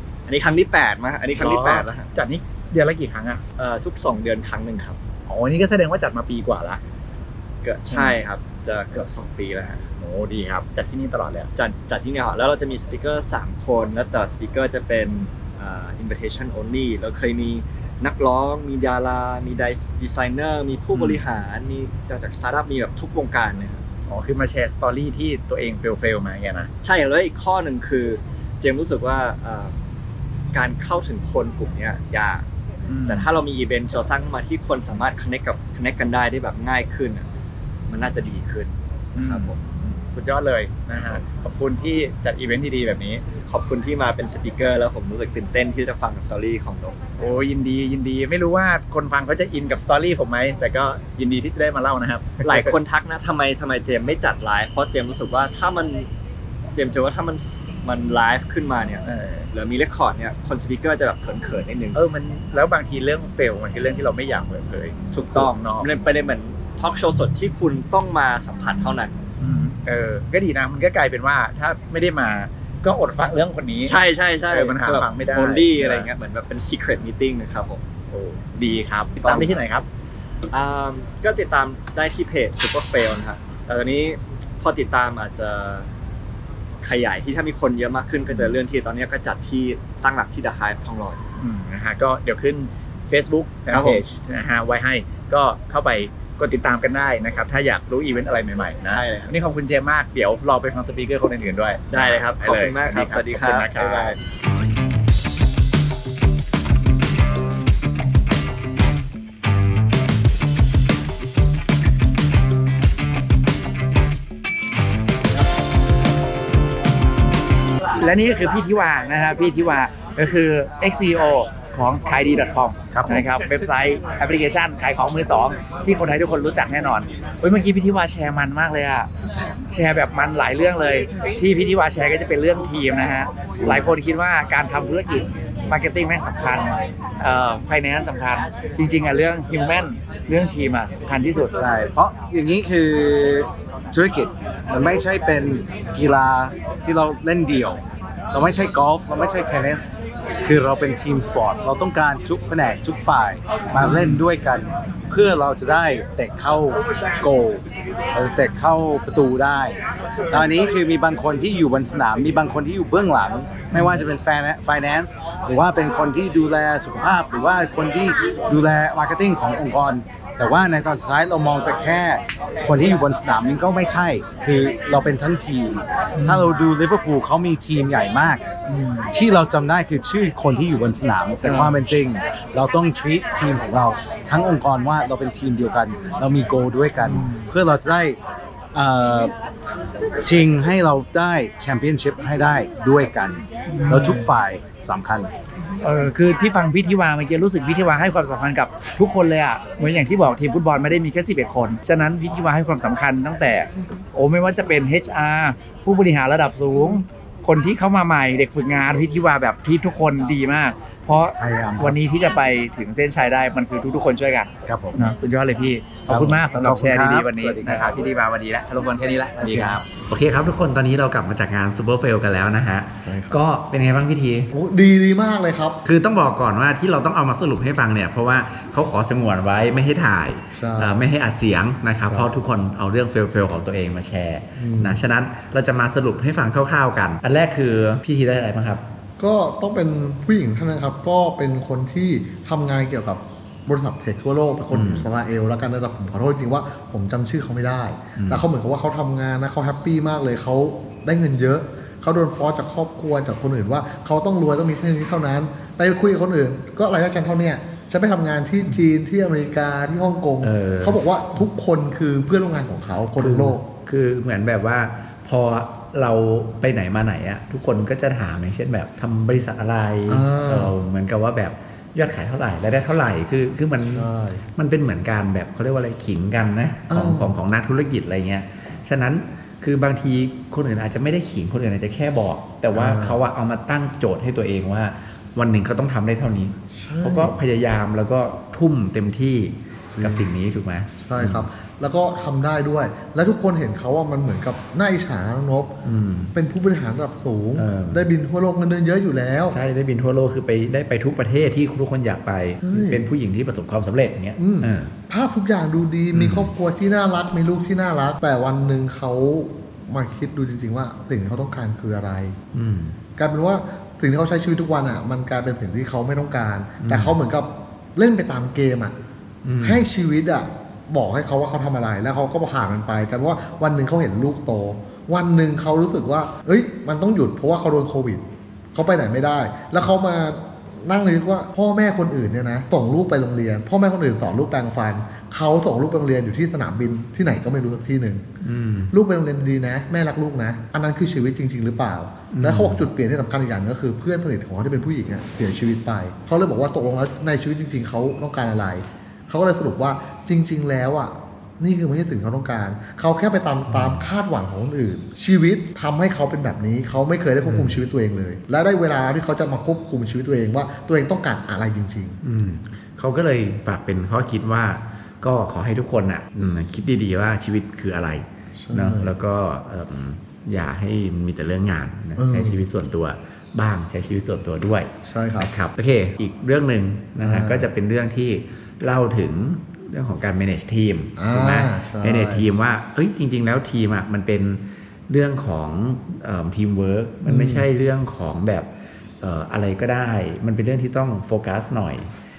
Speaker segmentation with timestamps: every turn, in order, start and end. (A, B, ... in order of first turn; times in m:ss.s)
0:00.3-0:02.1 A
0:01.3-0:03.4 B
0:03.6-0:05.0 A
0:05.3-0:06.8 B
0:07.6-0:09.8 A
0:07.9-0:08.2 B
0:10.0-0:11.5 B
0:11.5-0:23.8 A
0:20.9-0:21.2 B
0:24.1-0:26.7 B
0:26.8-0:29.7 A
0:30.5-0:32.4 A
0:32.9-0:33.3 B
0:33.0-0:37.3 A
0:37.9-0:39.6 A
0:39.1-0:43.2 B
0:41.0-0:41.2 A
0:43.4-0:47.0 A
0:47.2-0:52.8 B
0:52.4-0:56.1 A
0:56.7-1:02.0 A
0:59.0-0:59.5 B
1:01.9-1:05.9 B
1:05.1-1:09.2 A
1:09.4-1:16.1 B
1:13.8-1:17.8 A
1:18.1-1:19.8 B
1:19.2-1:19.6 A
1:20.5-1:25.9 A
1:26.8-1:31.2 A
1:28.3-1:28.6 B
1:31.4-1:44.2 B
1:33.7-1:34.0 A
1:38.9-1:39.3 A
1:41.9-1:44.2 A
1:58.0-2:09.1 B
2:02.9-2:03.2 C
2:09.7-2:21.6 B
2:13.6-2:13.9 C
2:21.6-2:39.8 C
2:33.7-2:34.3 B
2:40.3-2:58.4 C
2:43.7-2:44.0 B
2:56.1-2:56.5 B
2:58.7-2:59.1 B
2:59.1-3:08.2 C
3:01.4-3:01.8 B
3:07.0-3:07.5 B
3:08.7-3:09.3 C
3:10.2-3:15.3 C
3:13.7-3:14.3 B
3:15.8-3:44.5 B
3:31.4-3:32.0 C
3:34.6-3:35.0 C
3:36.0-3:38.0 C
3:39.4-3:39.8 C
3:43.0-3:43.4 D
3:44.5-3:45.8 D
3:45.8-3:58.8 B
3:50.5-3:51.0 D
3:52.1-3:52.4 D
3:54.6-3:55.0 D
3:59.2-4:23.6 D
4:04.7-4:05.1 B
4:08.2-4:08.4 B
4:20.4-4:21.0 B
4:23.2-4:51.4 B
4:30.1-4:30.7 D
4:33.9-4:34.4 D
4:36.9-4:37.3 D
4:42.7-4:43.2 D
4:46.7-4:47.4 D
4:49.9-4:50.3 D
4:51.0-4:55.7 D
4:55.8-4:56.3 B
4:56.3-4:59.6 D
4:57.6-4:58.1 B
4:59.5-5:04.9 B
5:02.6-5:03.0 D
5:04.4-5:12.4 D
5:06.1-5:06.5 B
5:12.5-5:13.0 B
5:13.2-5:18.9 D
5:16.8-5:17.2 B
5:19.4-5:19.8 B
5:19.6-5:28.2 D
5:28.7-5:38.2 D
5:38.4-5:38.9 B
5:38.9-6:02.2 D
5:42.3-5:42.8 B
5:53.7-5:54.1 B
5:57.4-5:57.8 B
6:02.2-6:28.7 B
6:08.5-6:09.2 D
6:12.2-6:12.6 D
6:15.0-6:15.5 D
6:17.2-6:17.7 D
6:21.2-6:22.5 D
6:27.2-6:27.7 D
6:29.2-6:32.1 B